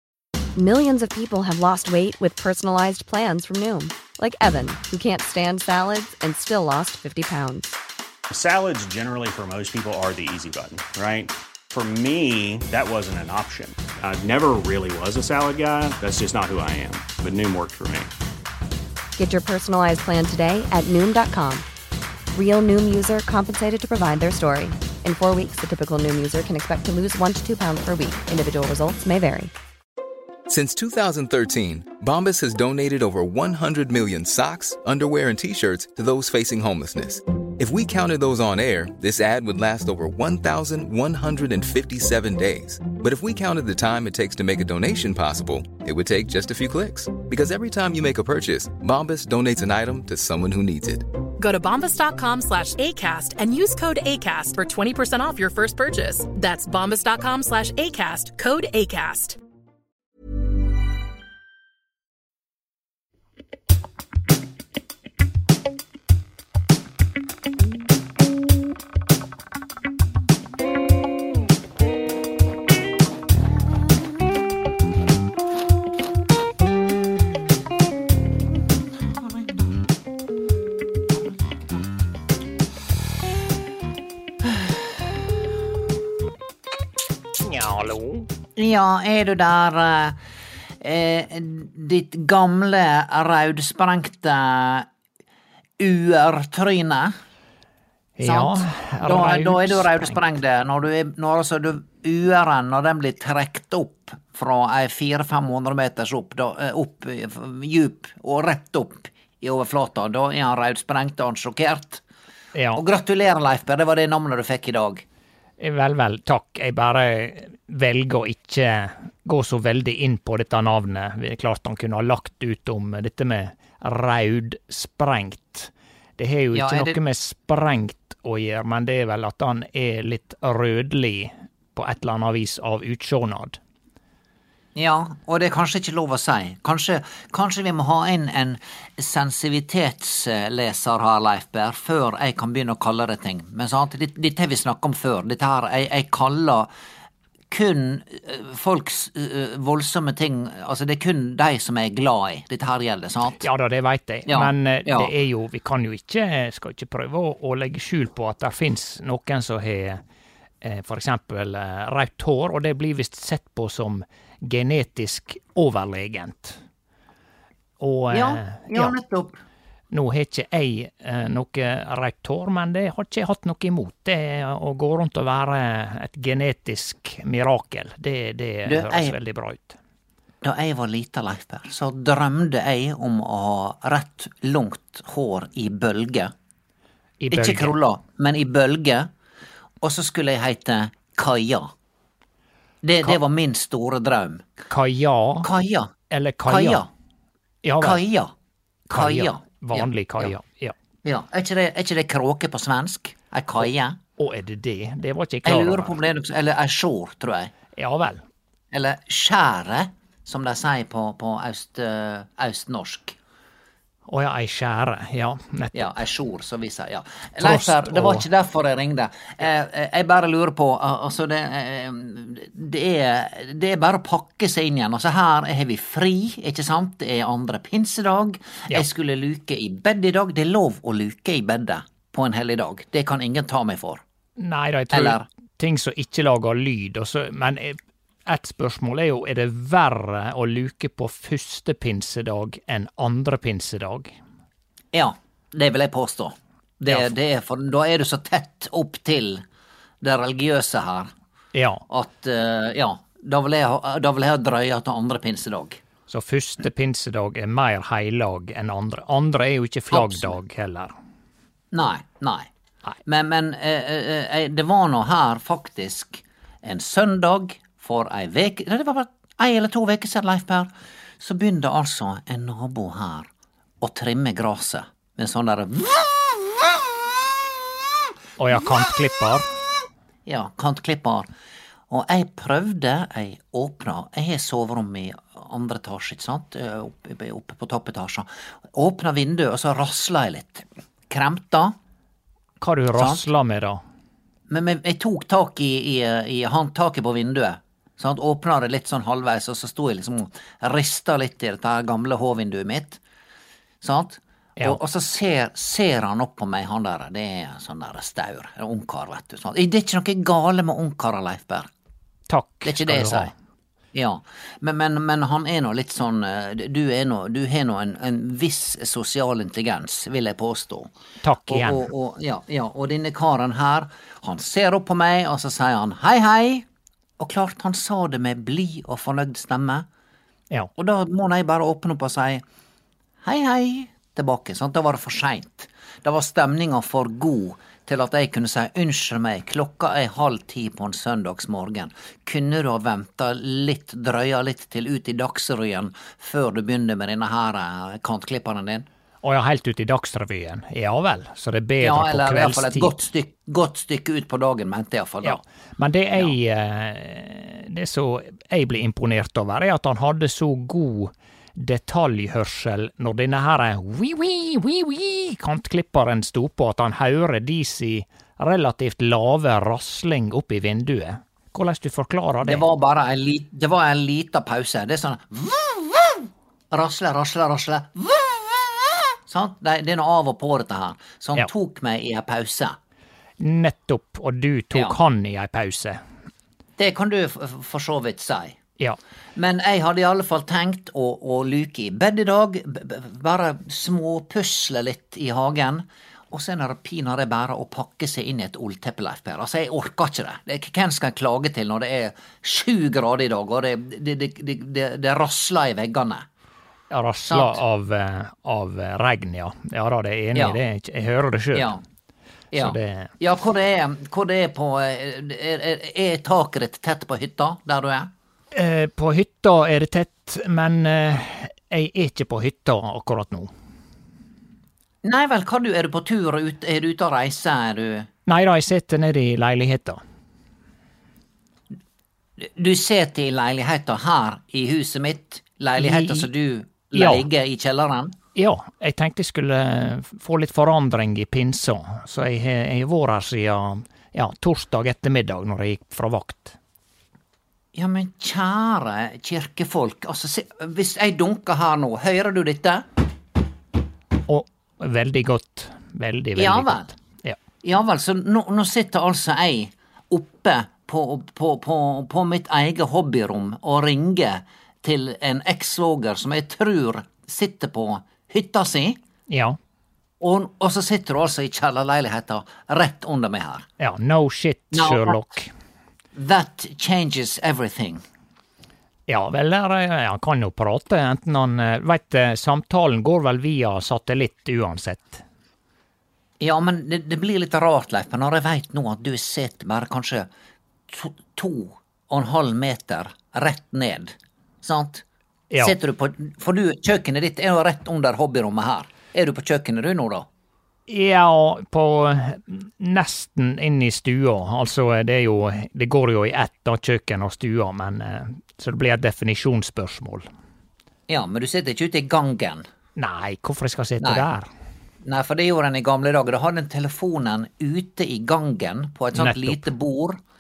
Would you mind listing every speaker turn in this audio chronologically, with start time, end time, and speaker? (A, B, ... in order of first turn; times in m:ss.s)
0:00.6-0:07.7 A
0:08.3-0:18.1 B
0:19.2-0:21.6 A
0:22.3-0:29.5 A
0:30.5-0:51.1 C
0:51.4-0:59.4 D
1:27.4-1:28.2 E
1:28.6-1:30.2 F
1:30.8-1:34.9 F
1:35.8-1:37.1 F
1:38.2-1:40.2 E
1:38.2-1:52.0 F
1:52.6-1:52.8 E
1:52.7-1:55.0 F
1:55.6-2:13.6 E
2:06.5-2:07.0 F
2:14.7-2:26.7 F
2:27.5-2:33.4 F
2:33.4-2:40.0 E
2:34.3-2:35.1 F
2:40.6-2:46.6 E
2:47.8-2:48.9 E
2:48.1-2:49.4 F
2:49.9-2:59.8 E
2:58.7-2:59.2 F
3:00.4-3:06.3 F
3:07.2-3:07.7 E
3:07.3-3:09.1 F
3:09.8-3:11.7 F
3:12.8-3:14.4 F
3:14.7-3:15.5 E
3:15.4-3:15.9 F
3:16.1-3:16.8 E
3:16.5-3:16.9 F
3:17.6-3:18.0 E
3:17.8-3:18.3 F
3:18.9-3:20.7 E
3:18.9-3:20.3 F
3:21.0-3:24.0 F
3:24.2-3:26.0 E
3:25.4-3:27.5 F
3:27.8-3:28.2 E
3:28.7-3:33.2 F
3:34.1-3:36.0 E
3:35.7-3:54.0 F
3:37.4-3:38.2 E
3:54.4-4:04.2 E
3:54.9-3:55.2 F
4:04.9-4:09.4 F
4:10.0-4:11.1 F
4:11.5-4:11.8 E
4:11.9-4:15.8 F
4:16.1-4:20.9 E
4:19.9-4:20.3 F
4:21.7-4:22.5 F
4:23.0-4:30.7 F
4:31.2-4:33.3 F
4:33.8-4:36.5 F
4:38.4-4:39.5 E
4:40.2-4:41.3 F
4:41.9-4:51.7 F
4:52.6-4:53.8 E
4:53.0-4:53.2 F
4:54.5-5:03.0 F
5:03.8-5:11.7 F
5:12.3-5:13.3 E
5:12.6-5:13.3 F
5:13.9-5:20.9 F
5:21.2-5:21.9 E
5:21.5-5:26.6 F
5:27.2-5:29.8 F
5:30.8-5:32.4 F
5:33.2-5:48.8 F
5:49.2-5:53.0 E
5:51.8-5:55.4 F
5:55.2-6:12.6 E
6:12.4-6:22.8 F
6:23.4-6:26.0 E
6:26.8-6:28.6 F
6:29.4-6:46.2 F
6:46.9-6:51.7 E
6:47.2-6:47.6 F
6:51.5-6:51.8 F
6:52.5-6:58.1 F
6:52.6-6:53.1 E
6:58.5-7:03.5 E
7:05.0-7:08.1 F
7:08.3-7:10.0 E
7:12.4-7:18.1 F
7:15.8-7:16.3 E
7:16.9-7:17.2 E
7:18.3-7:26.6 E
7:27.7-7:32.8 F
7:34.3-7:37.4 E
7:36.4-7:36.9 F
7:37.6-7:49.0 F
7:49.3-7:49.6 E
7:50.2-7:53.6 F
7:53.8-7:55.5 E
7:54.7-7:55.2 F
7:56.1-7:58.0 F
7:59.1-8:05.2 E
8:06.4-8:10.3 F
8:10.9-8:15.0 F
8:15.6-8:20.2 F
8:20.9-8:30.3 E
8:31.1-8:32.6 F
8:33.0-8:34.5 E
8:34.0-8:34.2 F
8:35.0-8:40.2 F
8:39.1-8:39.7 E